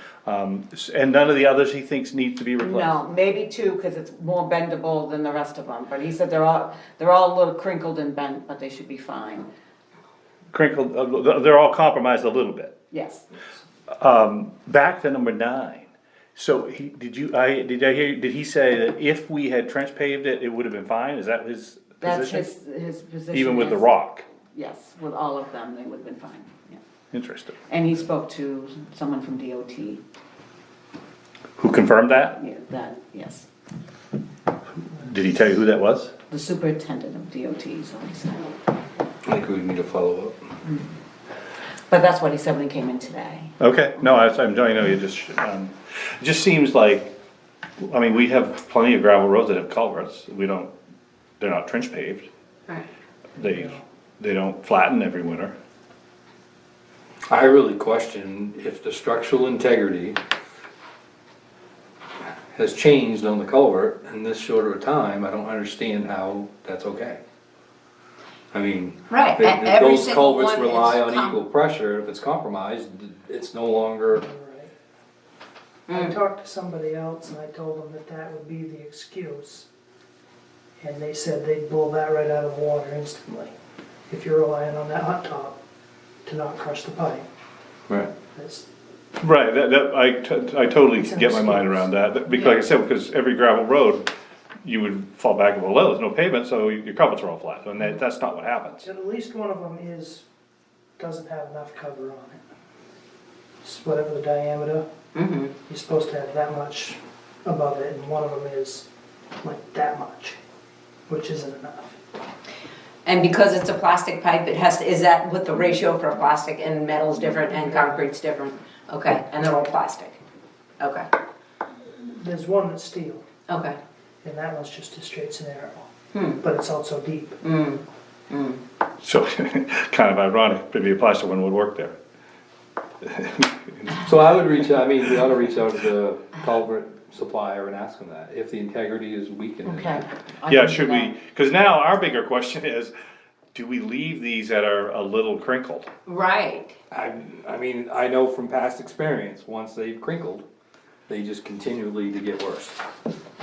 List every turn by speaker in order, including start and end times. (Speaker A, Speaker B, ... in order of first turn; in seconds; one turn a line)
Speaker A: 0.2-3.0
Speaker B: 2.6-9.5
Speaker A: 10.5-12.7
Speaker B: 12.9-13.2
Speaker A: 14.0-22.5
Speaker B: 22.0-23.9
Speaker A: 23.3-24.2
Speaker B: 24.5-26.8
Speaker A: 27.1-27.6
Speaker B: 27.7-30.0
Speaker A: 31.6-32.4
Speaker B: 32.4-33.5
Speaker A: 35.0-36.1
Speaker B: 36.3-38.5
Speaker C: 39.2-40.4
Speaker B: 41.9-43.5
Speaker A: 43.6-47.1
Speaker A: 47.8-50.7
Speaker A: 51.4-52.3
Speaker A: 53.4-55.5
Speaker C: 57.3-60.2
Speaker C: 62.5-67.2
Speaker C: 68.5-74.2
Speaker D: 69.1-71.5
Speaker E: 74.1-74.7
Speaker D: 75.9-76.2
Speaker E: 75.9-79.7
Speaker E: 80.8-83.5
Speaker E: 84.1-85.6
Speaker E: 86.3-87.3
Speaker E: 88.3-88.7
Speaker A: 89.2-94.1
Speaker E: 91.0-91.9
Speaker A: 94.6-98.8
Speaker E: 98.8-100.2
Speaker E: 101.0-102.4
Speaker E: 103.6-104.9
Speaker D: 105.2-105.5
Speaker E: 105.7-108.9
Speaker E: 109.4-110.4
Speaker E: 111.1-112.0
Speaker D: 113.0-120.2
Speaker E: 117.5-118.0
Speaker D: 120.8-121.1
Speaker E: 122.0-123.2
Speaker D: 123.5-123.8
Speaker E: 124.2-125.9
Speaker D: 126.1-126.4
Speaker E: 126.4-127.4
Speaker D: 127.4-128.6
Speaker A: 129.0-131.9
Speaker A: 133.0-133.9
Speaker C: 134.0-140.0
Speaker B: 139.7-141.1
Speaker A: 140.5-142.9
Speaker A: 143.5-145.9
Speaker D: 146.1-146.8
Speaker C: 146.9-150.4
Speaker C: 151.1-152.8